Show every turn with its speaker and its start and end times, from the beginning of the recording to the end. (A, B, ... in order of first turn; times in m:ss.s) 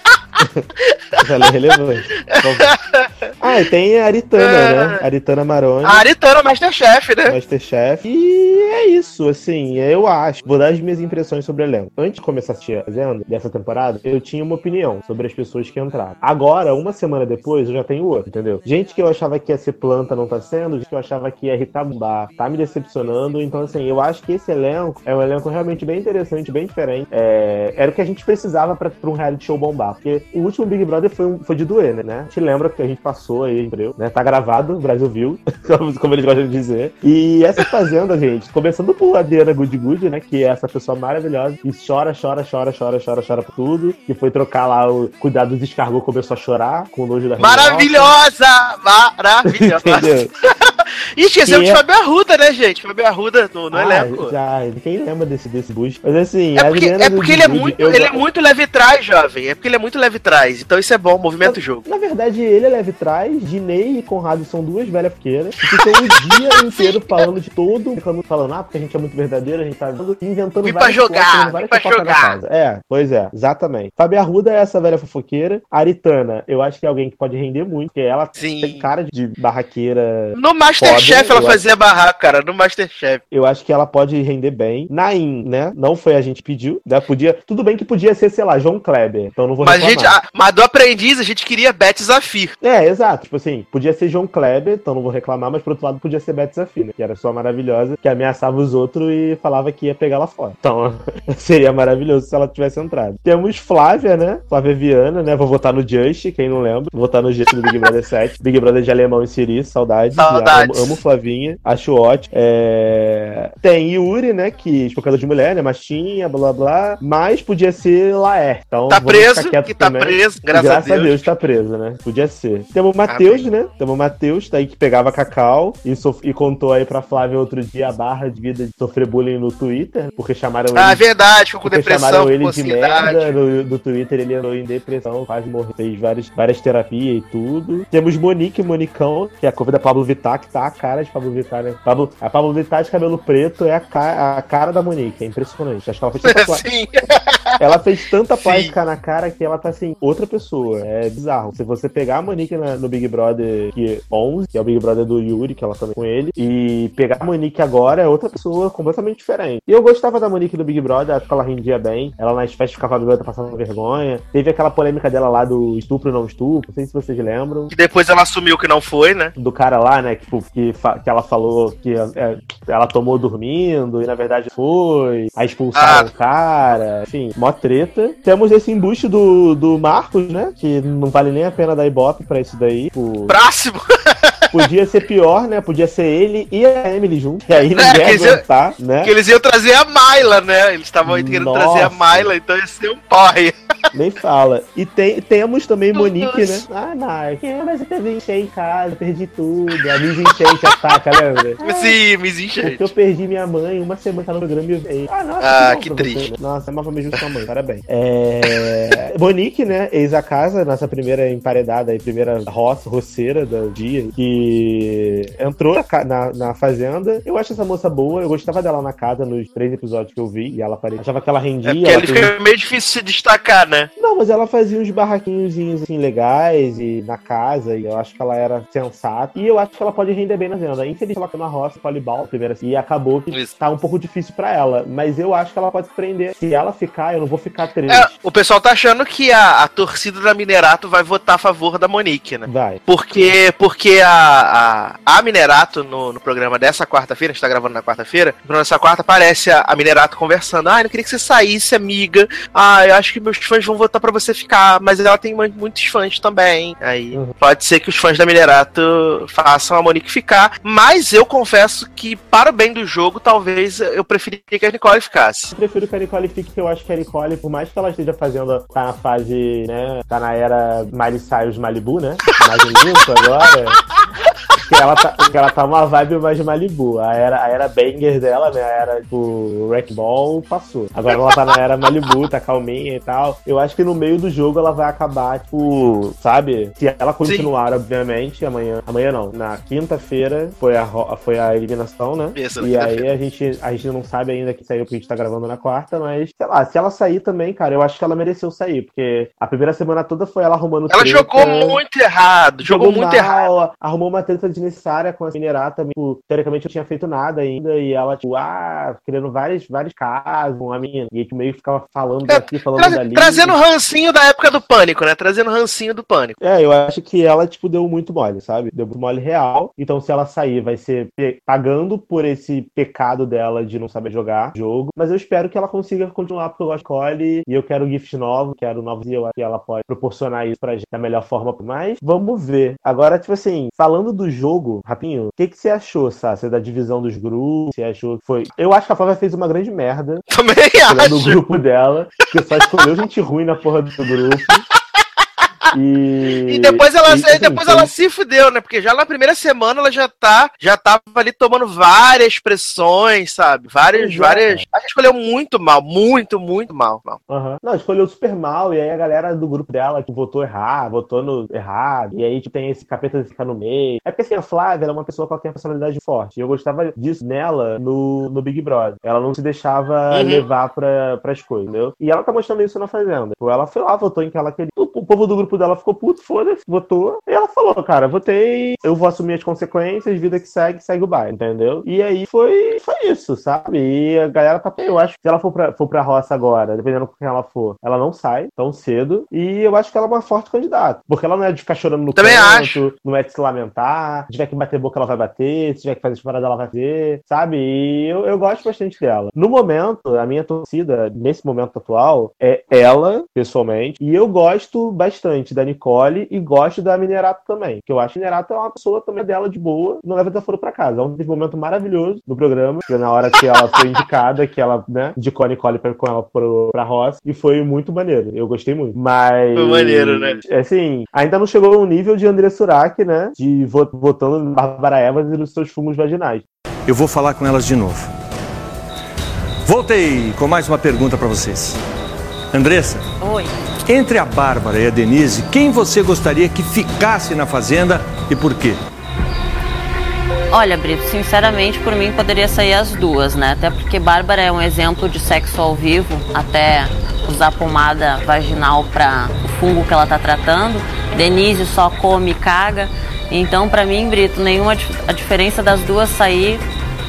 0:00.4-0:00.6 A
0:00.8-0:01.2 B
0:01.2-0:02.7 A
0:02.2-0:03.3 B
0:03.4-0:06.0 A
0:04.4-0:05.0 B
0:05.8-0:07.4 B
0:07.3-0:48.1 A
0:47.4-0:54.3 B
0:49.4-0:50.3 A
0:51.4-0:51.8 A
0:53.7-0:58.2 A
0:56.6-1:01.8 B
1:01.4-1:21.6 A
1:05.7-1:07.2 B
1:10.6-1:12.4 B
1:18.4-1:18.9 B
1:20.4-1:23.2 B
1:23.3-1:30.2 A
1:29.6-1:32.6 B
1:32.6-2:11.0 A
1:50.2-1:51.0 B
1:58.9-2:01.3 B
2:03.1-2:03.4 B
2:10.7-2:13.3 B
2:11.6-2:26.6 A
2:26.2-2:27.6 B
2:27.6-2:47.7 A
2:28.4-2:28.7 B
2:47.7-2:49.3 B
2:49.4-3:03.4 A
2:55.7-2:56.1 B
3:03.3-3:04.6 B
3:04.5-3:09.1 A
3:07.6-3:08.4 B
3:09.0-3:13.6 B
3:11.0-3:12.3 A
3:13.9-3:21.9 A
3:15.9-3:16.6 B
3:21.6-3:22.9 B
3:22.6-3:42.3 A
3:25.4-3:26.3 B
3:28.4-3:28.8 B
3:41.6-3:43.9 B
3:44.0-3:58.1 A
3:57.9-4:25.5 B
4:02.4-4:02.8 A
4:25.5-4:33.8 A
4:34.6-5:01.8 A
4:41.1-4:41.4 B
4:47.2-4:47.5 B
4:52.3-4:53.1 B
5:00.9-5:03.5 B
5:02.6-5:13.6 A
5:12.3-5:16.4 B
5:16.4-5:40.2 A
5:40.3-5:41.4 B
5:40.9-5:44.6 A
5:45.7-5:47.9 A
5:46.4-5:57.2 B
5:53.9-5:54.6 A
5:57.3-7:06.4 A
6:10.1-6:10.4 B
6:32.2-6:32.8 B
6:59.6-7:00.4 B
7:06.9-7:08.1 C
7:09.7-7:11.7 C
7:12.5-7:13.0 C
7:13.2-7:13.5 D
7:13.9-7:18.8 C
7:20.5-7:36.6 D